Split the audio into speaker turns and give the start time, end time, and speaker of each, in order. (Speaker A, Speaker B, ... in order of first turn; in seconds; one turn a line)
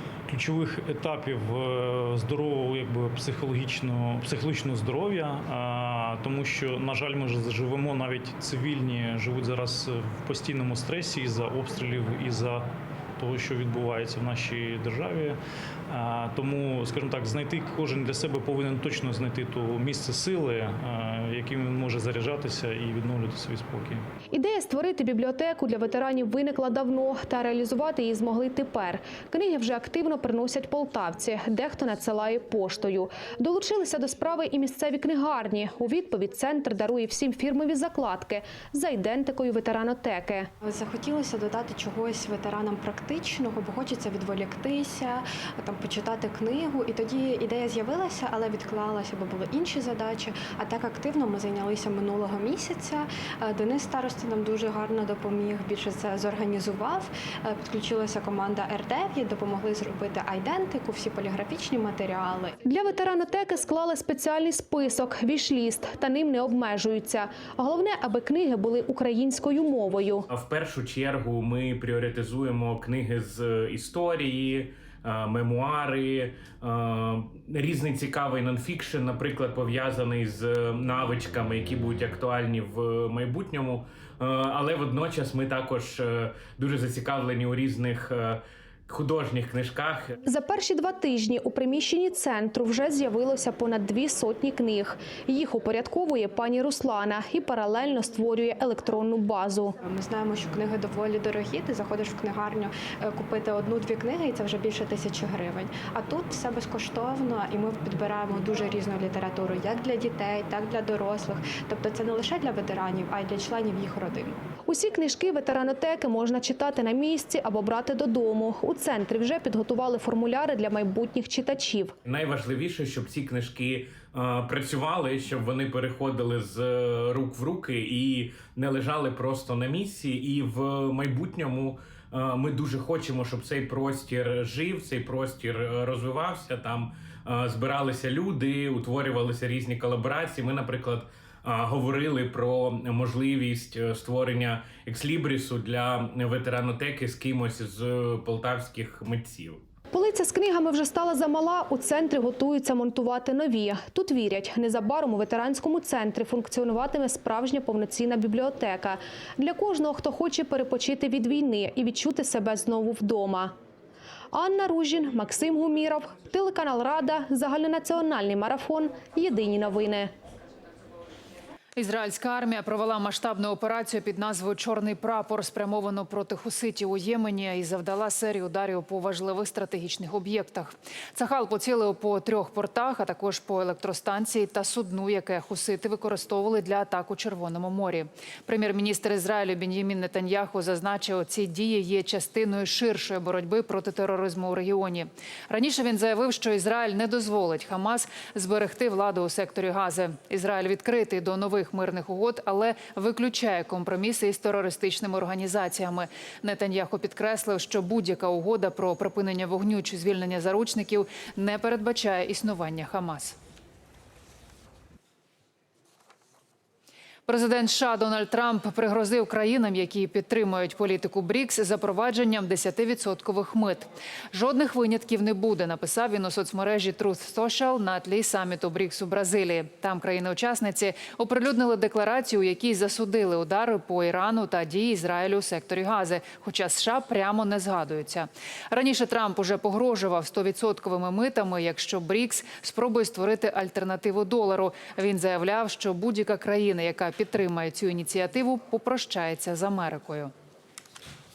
Speaker A: 0.3-24.1
Speaker B: 24.3-40.5
Speaker C: 40.6-62.6
Speaker B: 62.6-70.2
Speaker D: 70.3-90.1
Speaker B: 90.2-99.7
Speaker C: 99.8-114.4
Speaker B: 114.7-122.0
Speaker D: 122.0-149.6
Speaker B: 149.9-163.6
Speaker B: 164.3-170.1
Speaker E: 171.8-213.4
Speaker E: 217.3-250.3